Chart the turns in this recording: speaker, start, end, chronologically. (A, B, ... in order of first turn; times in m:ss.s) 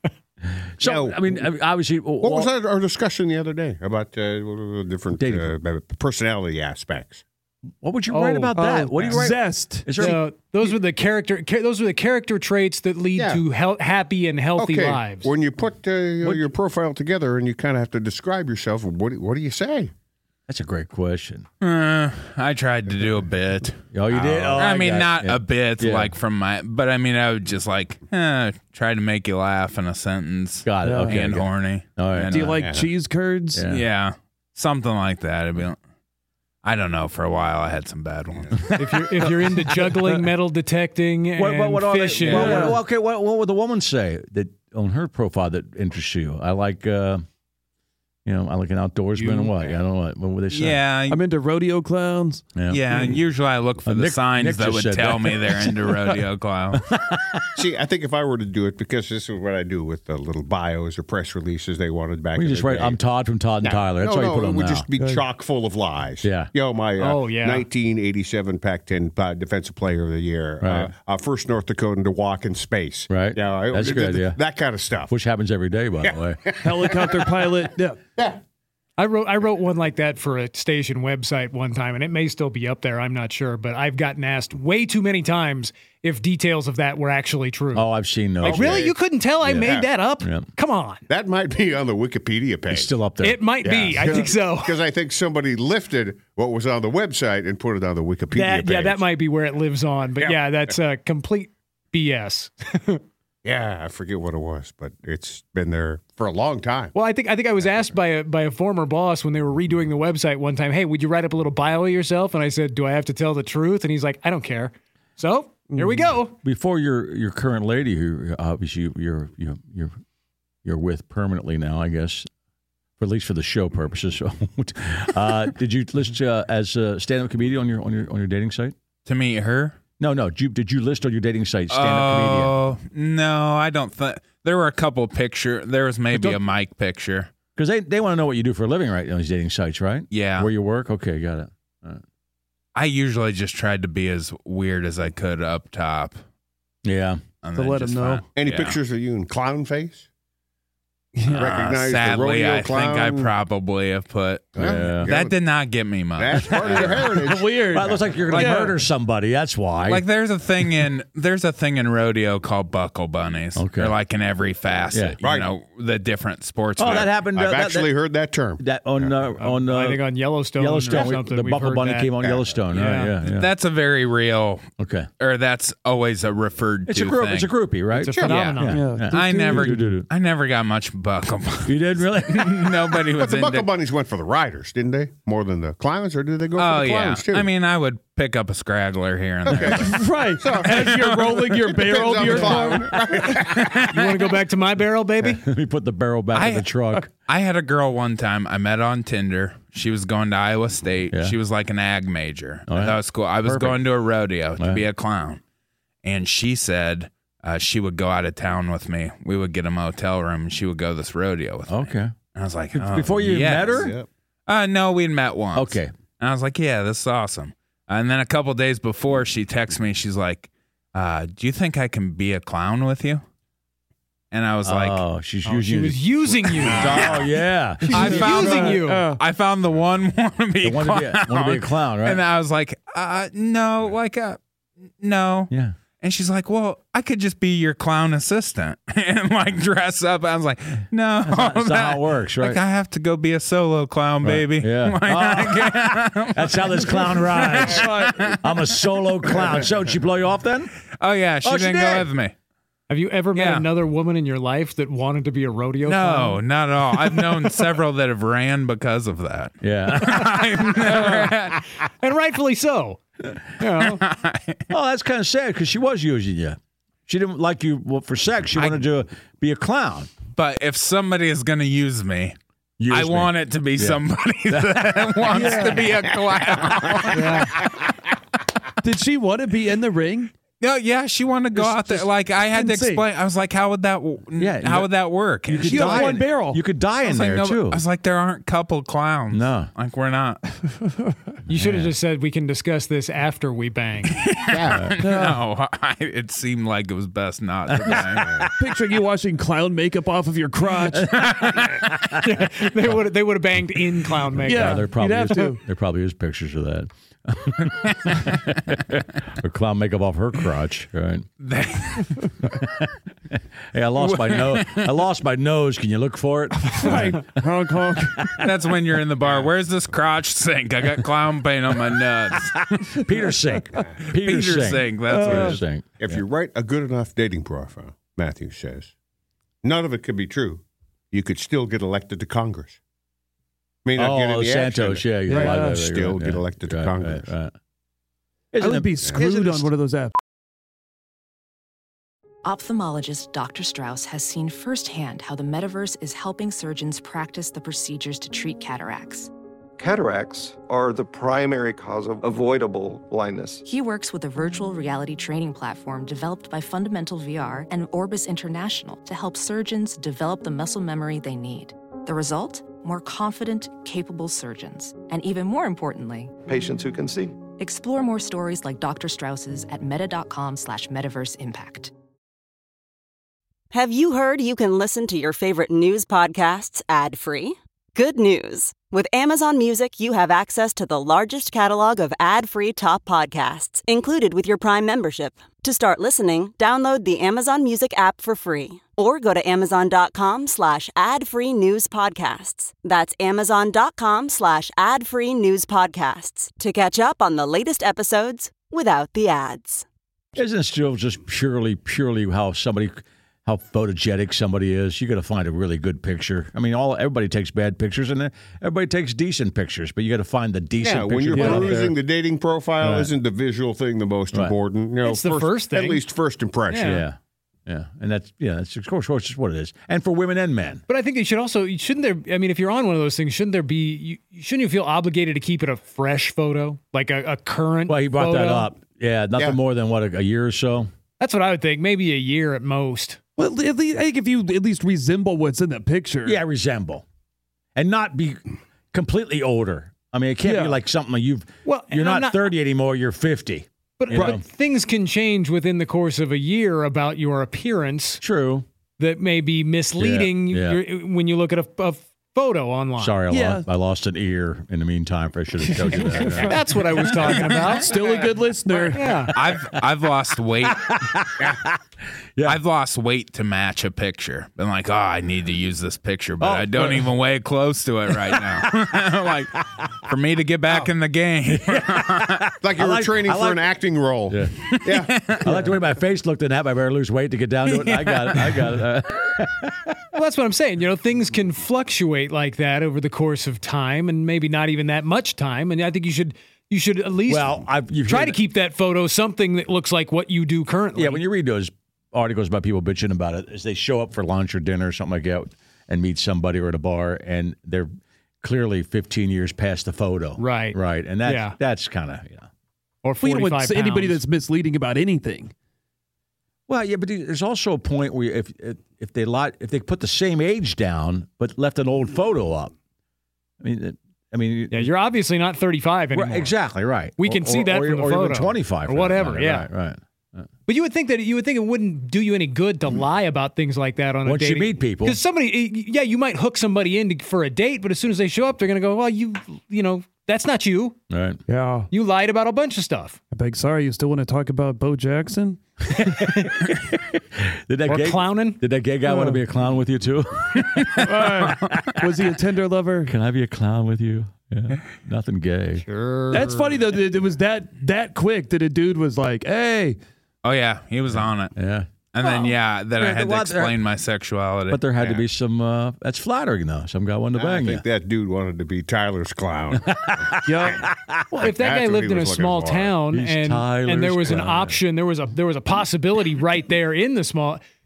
0:00.6-0:02.5 A
0:00.8-0:01.4 B
0:02.2-0:07.2 B
0:05.2-0:05.5 A
0:07.8-0:10.2 A
0:08.1-0:08.5 C
0:08.6-0:10.2 D
0:10.0-0:15.3 C
0:13.2-0:13.4 B
0:14.6-0:19.9 B
0:16.2-0:16.5 A
0:20.5-0:21.5 A
0:21.6-0:32.6 E
0:23.9-0:26.1 A
0:30.6-0:32.5 A
0:30.8-0:31.2 D
0:32.3-0:33.6 D
0:32.6-0:32.9 B
0:33.5-0:33.8 A
0:33.7-0:35.8 E
0:36.6-0:38.6 E
0:38.8-0:42.7 C
0:39.2-0:39.9 A
0:41.4-0:47.2 A
0:42.2-0:42.6 E
0:42.3-0:42.8 D
0:48.2-0:50.8 A
0:49.2-0:49.5 C
0:50.5-0:51.2 E
0:51.1-0:52.5 D
0:52.5-0:53.1 A
0:52.7-0:56.8 E
0:53.8-0:56.1 A
0:56.7-0:57.5 A
0:57.6-1:03.0 B
1:02.4-1:04.9 A
1:03.6-1:15.1 B
1:05.0-1:05.2 D
1:06.2-1:06.5 A
1:07.0-1:07.7 C
1:10.6-1:10.9 A
1:13.1-1:14.4 A
1:15.1-1:16.5 A
1:16.0-1:17.2 B
1:16.6-1:18.0 D
1:19.0-1:27.9 C
1:27.7-1:28.9 A
1:28.4-1:31.0 C
1:28.4-1:29.0 B
1:29.4-1:30.5 A
1:29.6-1:29.9 B
1:31.1-1:32.9 B
1:32.7-1:33.4 A
1:33.2-1:34.8 C
1:33.6-1:39.0 B
1:38.3-1:43.0 C
1:43.4-1:46.9 B
1:46.9-1:56.4 C
1:56.4-2:00.0 A
2:00.6-2:02.3 A
2:03.0-2:08.8 A
2:09.1-2:09.8 E
2:10.0-2:12.6 A
2:11.7-2:17.3 E
2:16.1-2:16.4 A
2:17.6-2:22.0 A
2:20.1-2:20.5 E
2:22.8-2:26.2 E
2:26.8-2:27.2 A
2:27.4-2:28.8 E
2:27.6-2:28.2 D
2:28.4-2:30.1 B
2:31.2-2:31.4 D
2:31.2-2:37.0 E
2:31.4-2:33.3 B
2:34.6-2:35.4 B
2:34.6-2:35.2 A
2:36.2-2:38.0 B
2:36.7-2:37.1 A
2:36.8-2:38.8 D
2:37.7-2:40.0 A
2:39.9-2:47.1 E
2:43.6-2:44.0 A
2:44.9-2:45.2 A
2:45.2-2:45.5 B
2:46.8-2:47.9 A
2:47.3-2:49.2 B
2:48.6-2:50.0 A
2:49.4-2:52.1 C
2:50.6-2:53.5 A
2:52.2-2:52.5 B
2:52.7-2:53.1 C
2:53.2-2:54.7 E
2:54.8-2:55.1 A
2:55.2-2:57.5 E
2:56.9-3:00.1 A
2:57.9-2:58.8 C
2:58.1-2:58.4 B
2:58.2-3:03.7 E
2:58.7-2:59.9 D
3:01.6-3:02.8 A
3:03.2-3:07.5 B
3:06.6-3:10.0 E
3:09.5-3:09.9 B
3:09.7-3:12.9 D
3:10.4-3:13.9 B
3:10.6-3:11.6 E
3:12.3-3:12.6 E
3:13.3-3:13.9 E
3:13.9-3:15.4 C
3:15.4-3:17.1 A
3:16.3-3:25.4 E
3:22.7-3:23.8 A
3:24.6-3:24.8 A
3:26.0-3:33.9 E
3:31.7-3:32.1 A
3:32.7-3:33.9 A
3:33.6-3:34.1 B
3:34.5-3:43.2 E
3:35.5-3:35.9 A
3:44.3-3:45.0 E
3:44.6-3:48.7 A
3:45.4-3:47.1 C
3:46.7-3:47.2 B
3:47.9-3:49.1 C
3:47.9-3:54.4 E
3:48.0-3:49.2 D
3:50.6-3:52.2 A
3:55.0-4:08.4 E
3:55.5-3:55.8 A
4:01.2-4:02.6 A
4:04.2-4:10.7 A
4:07.5-4:08.4 D
4:11.0-4:12.3 E
4:11.4-4:12.1 A
4:12.9-4:16.4 C
4:13.3-4:13.7 E
4:15.8-4:21.6 E
4:19.6-4:21.0 A
4:22.0-4:23.0 C
4:23.6-4:24.0 C
4:23.8-4:24.7 E
4:24.7-4:30.1 A
4:28.6-4:28.8 E
4:30.4-4:32.4 E
4:32.8-4:35.8 A
4:32.9-4:37.7 E
4:35.3-4:35.9 D
4:37.1-4:37.5 D
4:38.8-4:40.3 D
4:40.6-4:46.2 E
4:41.6-4:43.0 D
4:44.4-4:44.9 A
4:45.4-4:47.8 A
4:45.6-4:46.6 D
4:47.0-4:50.4 E
4:49.3-4:49.7 A
4:51.5-4:54.2 C
4:51.5-4:51.9 A
4:54.1-4:58.5 E
4:54.5-4:54.8 B
4:54.7-4:55.0 A
4:55.0-4:55.4 D
4:57.7-4:58.4 A
4:58.6-5:01.2 D
5:00.9-5:02.2 A
5:01.1-5:01.8 E
5:02.2-5:04.9 C
5:04.3-5:11.3 A
5:04.4-5:05.6 D
5:11.4-5:12.3 E
5:12.4-5:12.9 A
5:13.7-5:17.4 A
5:14.0-5:14.9 E
5:16.6-5:18.4 D
5:18.2-5:18.5 A
5:18.4-5:23.0 E
5:19.2-5:19.5 B
5:22.9-5:26.2 A
5:24.1-5:25.6 E
5:25.1-5:25.6 D
5:26.0-5:28.9 B
5:29.6-5:32.8 B
5:33.8-5:37.3 B
5:34.0-5:37.5 A
5:35.3-5:35.8 D
5:38.5-5:39.7 A
5:38.6-5:40.1 D
5:42.4-5:49.3 F
5:49.8-5:53.6 G
5:53.6-6:06.3 F
6:06.5-6:07.4 G
6:07.6-6:11.9 F
6:13.7-6:39.9 H
6:40.4-6:52.0 A
6:50.8-6:57.0 B
6:51.3-6:51.7 D
6:52.8-6:53.1 A
6:55.0-6:56.0 C
6:56.7-6:57.0 C
6:56.8-7:00.8 A
7:00.9-7:08.7 C
7:07.9-7:10.9 A
7:11.2-7:13.2 C
7:13.4-7:16.4 D
7:16.2-7:17.0 A
7:17.8-7:24.4 A
7:20.4-7:20.8 D
7:21.6-7:22.5 C
7:24.0-7:28.2 C
7:24.1-7:24.4 D
7:28.2-7:28.7 A
7:29.0-7:33.2 C
7:30.0-7:30.8 A
7:33.0-7:36.6 A
7:33.3-7:33.6 D
7:35.6-7:36.6 D
7:36.4-7:38.0 C
7:37.7-7:39.1 D
7:38.9-7:39.3 C
7:39.1-7:39.6 A
7:39.3-7:40.9 E
7:40.6-7:41.8 A
7:42.4-7:52.5 E
7:46.4-7:47.1 A
7:48.2-7:49.0 A
7:51.5-7:53.6 A
7:52.6-7:55.5 B
7:54.3-7:54.8 A
7:54.7-7:55.4 E
7:55.3-8:00.0 A
7:57.7-7:58.7 E
8:00.1-8:11.2 C
8:07.3-8:08.4 A
8:11.0-8:17.9 A
8:18.4-8:22.5 A
8:20.4-8:21.6 C
8:23.0-8:24.2 C
8:23.2-8:25.5 D
8:26.7-8:32.7 A
8:33.6-8:34.9 A
8:34.7-8:36.5 C
8:36.1-8:40.5 A
8:37.2-8:39.7 C
8:40.7-8:51.0 C
8:44.2-8:45.2 A
8:51.1-8:51.4 A
8:51.5-8:51.9 D
8:51.9-8:53.2 C
8:53.3-8:55.6 D
8:56.0-9:01.9 A
8:56.0-8:56.6 C
8:57.9-8:58.6 C
8:59.0-8:59.4 D
9:01.0-9:03.1 D
9:03.1-9:05.8 A
9:05.8-9:06.7 C
9:06.3-9:10.0 D
9:10.4-9:11.5 E
9:11.1-9:13.8 A
9:12.1-9:14.8 E
9:14.7-9:17.8 A
9:15.0-9:15.2 B
9:17.4-9:20.4 B
9:19.8-9:21.5 A
9:20.4-9:20.8 D
9:21.4-9:23.0 B
9:21.4-9:27.6 C
9:23.1-9:24.8 A